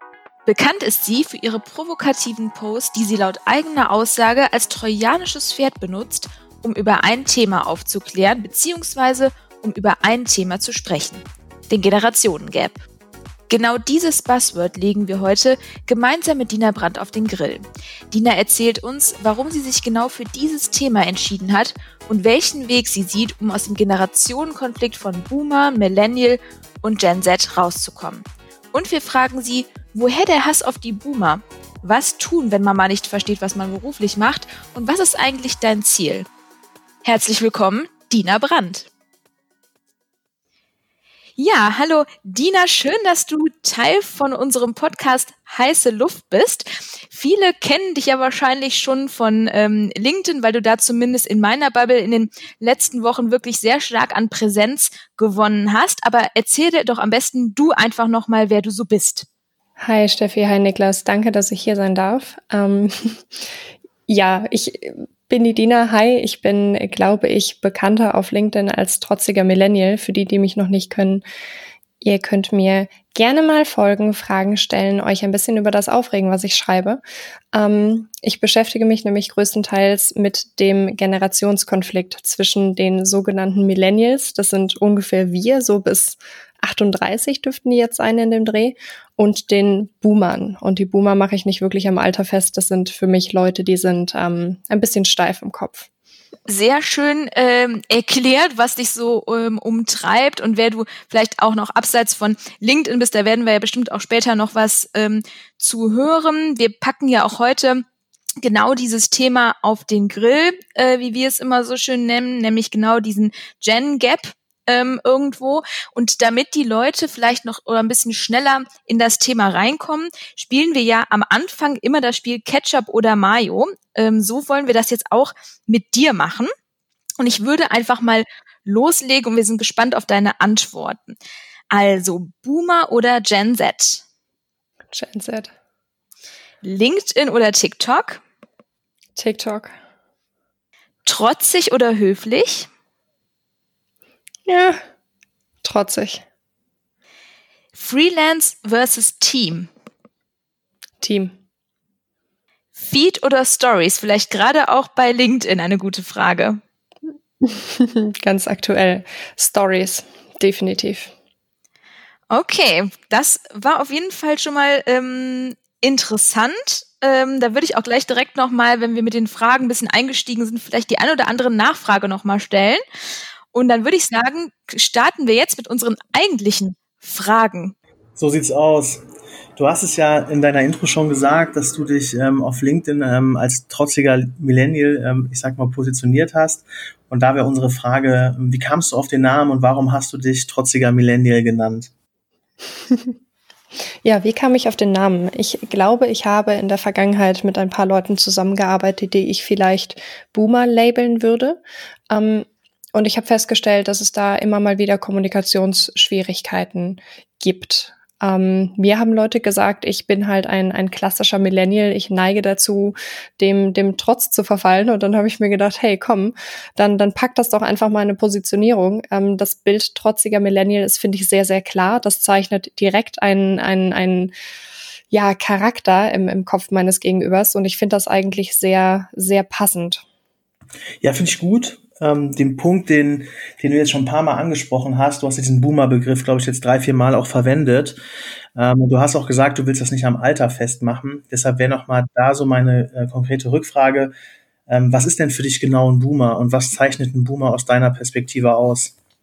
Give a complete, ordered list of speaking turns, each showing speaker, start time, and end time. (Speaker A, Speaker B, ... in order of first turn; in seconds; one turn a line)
Speaker A: 0.5-12.8
Speaker A: 13.5-36.3
Speaker A: 37.0-38.9
Speaker A: 41.4-59.3
Speaker B: 59.8-63.4
Speaker B: 64.1-71.2
Speaker B: 72.0-77.0
Speaker B: 77.5-95.9
Speaker A: 96.5-107.8
Speaker A: 108.4-126.5
Speaker A: 127.2-131.2
Speaker A: 131.7-134.0
Speaker B: 134.9-135.5
Speaker A: 136.6-138.2
Speaker B: 139.2-139.7
Speaker A: 141.1-142.7
Speaker B: 144.5-144.8
Speaker B: 145.6-146.2
Speaker A: 147.7-149.7
Speaker B: 151.0-151.3
Speaker A: 152.8-156.6
Speaker B: 157.4-161.1
Speaker A: 162.3-172.8
Speaker A: 173.5-177.8
Speaker C: 178.2-179.0
Speaker C: 179.6-191.9
Speaker B: 192.9-193.2
Speaker B: 194.0-224.3
Speaker B: 225.1-230.0
Speaker C: 231.0-238.0
Speaker C: 238.6-244.1
Speaker C: 244.7-248.9